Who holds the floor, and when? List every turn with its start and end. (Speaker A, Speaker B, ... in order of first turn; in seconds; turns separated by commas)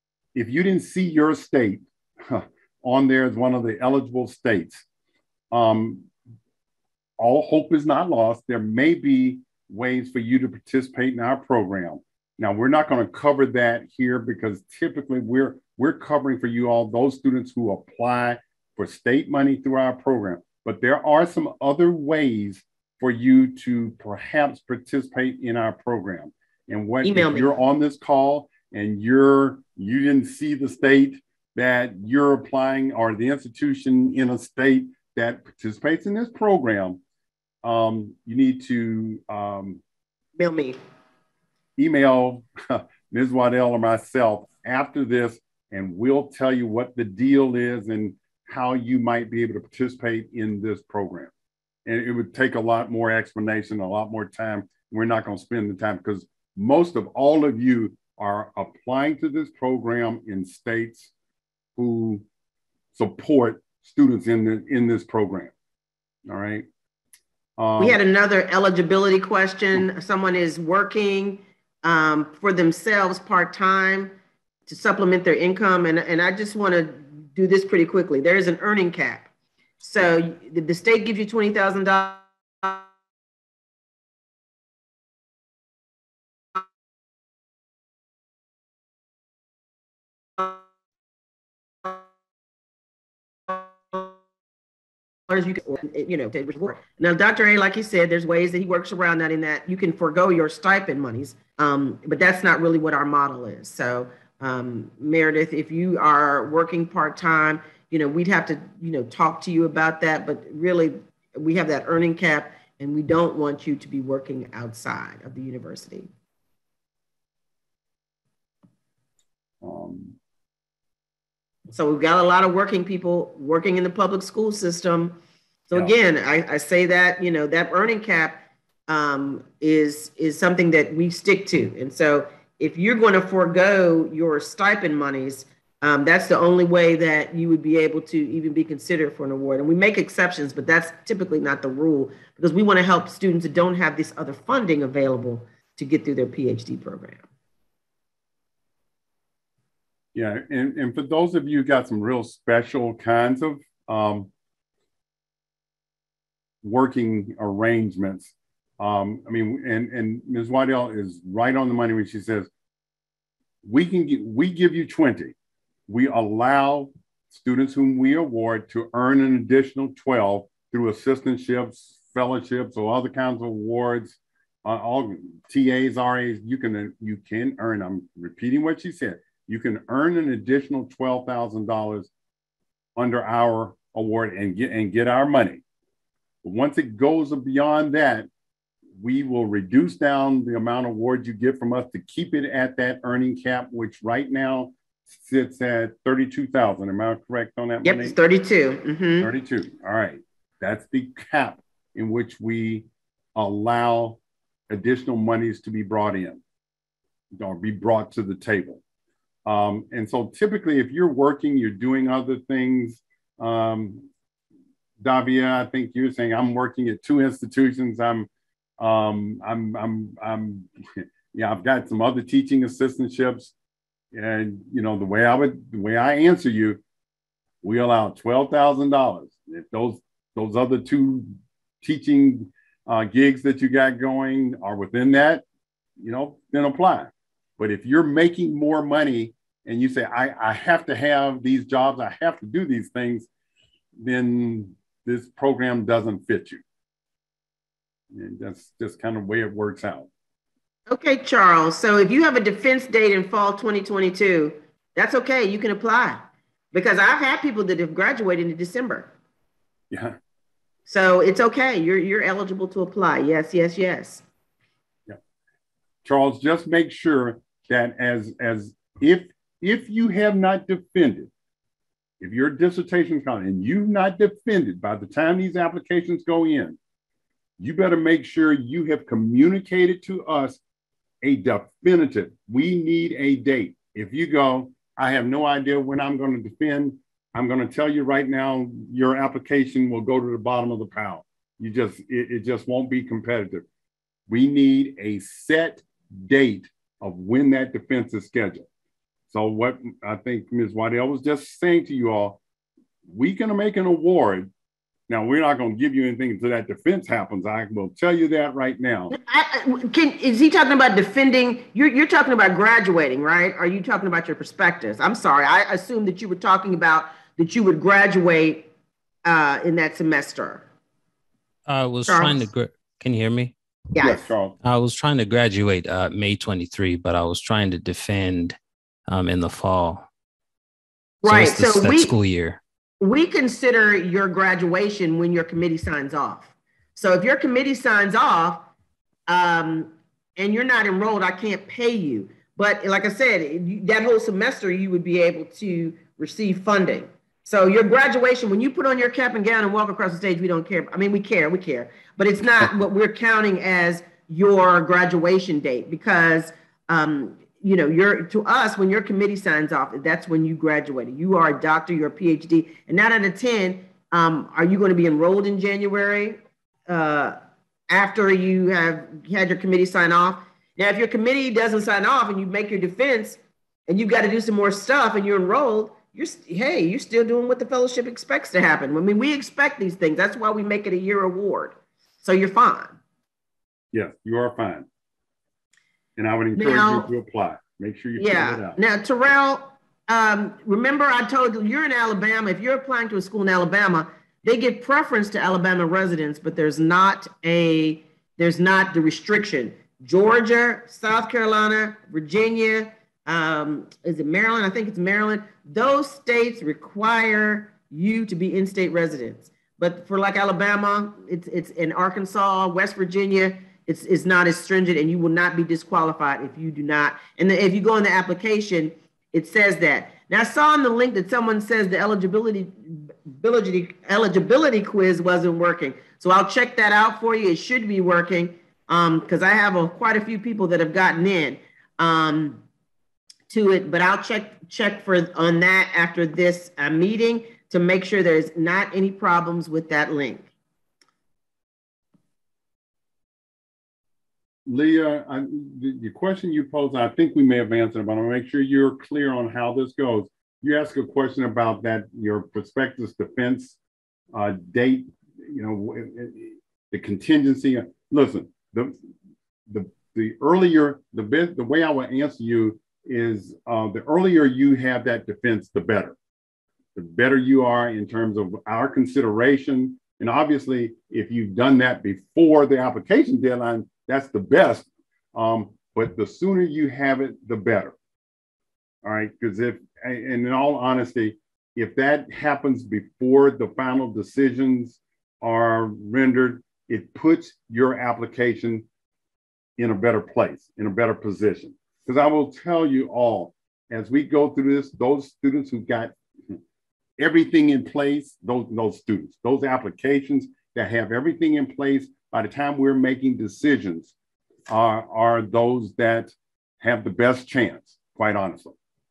Speaker A: 0.3-4.8, Speaker A: 5.5-6.1, Speaker A: 7.2-37.0, Speaker B: 27.0-27.5, Speaker A: 37.6-39.8, Speaker B: 40.4-40.8, Speaker A: 41.8-51.3, Speaker A: 51.9-61.1, Speaker A: 61.8-62.2, Speaker A: 62.9-65.5, Speaker A: 66.2-66.7, Speaker A: 67.6-68.0, Speaker B: 67.8-74.1, Speaker B: 74.7-79.3, Speaker B: 79.8-82.8, Speaker B: 93.5-94.1, Speaker B: 95.3-116.1, Speaker A: 119.6-120.2, Speaker B: 121.7-147.2, Speaker A: 150.1-154.3, Speaker A: 156.6-162.5, Speaker A: 163.6-165.3, Speaker A: 165.9-182.1, Speaker A: 182.9-185.6, Speaker A: 186.4-188.3, Speaker A: 189.0-198.2, Speaker B: 197.8-199.3, Speaker A: 199.2-204.2, Speaker A: 204.7-206.4, Speaker A: 207.3-208.8, Speaker A: 209.4-214.1, Speaker A: 215.0-218.3, Speaker A: 218.8-223.5, Speaker A: 224.1-226.8, Speaker A: 227.6-231.3, Speaker A: 231.8-235.4, Speaker A: 236.0-243.3, Speaker A: 244.0-246.6, Speaker A: 248.1-250.1, Speaker B: 250.9-259.1, Speaker A: 259.9-260.1, Speaker B: 260.9-264.2, Speaker A: 266.0-271.3, Speaker A: 272.2-276.8, Speaker A: 277.6-280.6, Speaker A: 281.2-293.6, Speaker A: 294.3-298.7, Speaker A: 299.3-302.4, Speaker A: 303.1-304.5, Speaker A: 305.1-309.1, Speaker B: 309.1-318.7, Speaker B: 319.2-320.6, Speaker C: 321.7-323.5, Speaker B: 322.1-322.4, Speaker B: 323.9-324.2, Speaker A: 324.0-324.5, Speaker C: 324.6-328.6, Speaker C: 329.1-330.1, Speaker B: 331.2-332.1, Speaker C: 331.2-332.6, Speaker B: 333.0-338.7, Speaker B: 339.3-367.4, Speaker B: 367.9-382.9, Speaker A: 383.9-384.9, Speaker A: 386.2-388.8, Speaker B: 386.6-387.1, Speaker B: 388.2-432.6, Speaker B: 433.5-440.5, Speaker A: 444.6-453.8, Speaker A: 454.3-458.9, Speaker A: 459.7-466.1, Speaker A: 466.9-477.9, Speaker A: 479.0-488.8, Speaker A: 489.8-496.1, Speaker A: 497.2-504.1, Speaker A: 504.7-508.7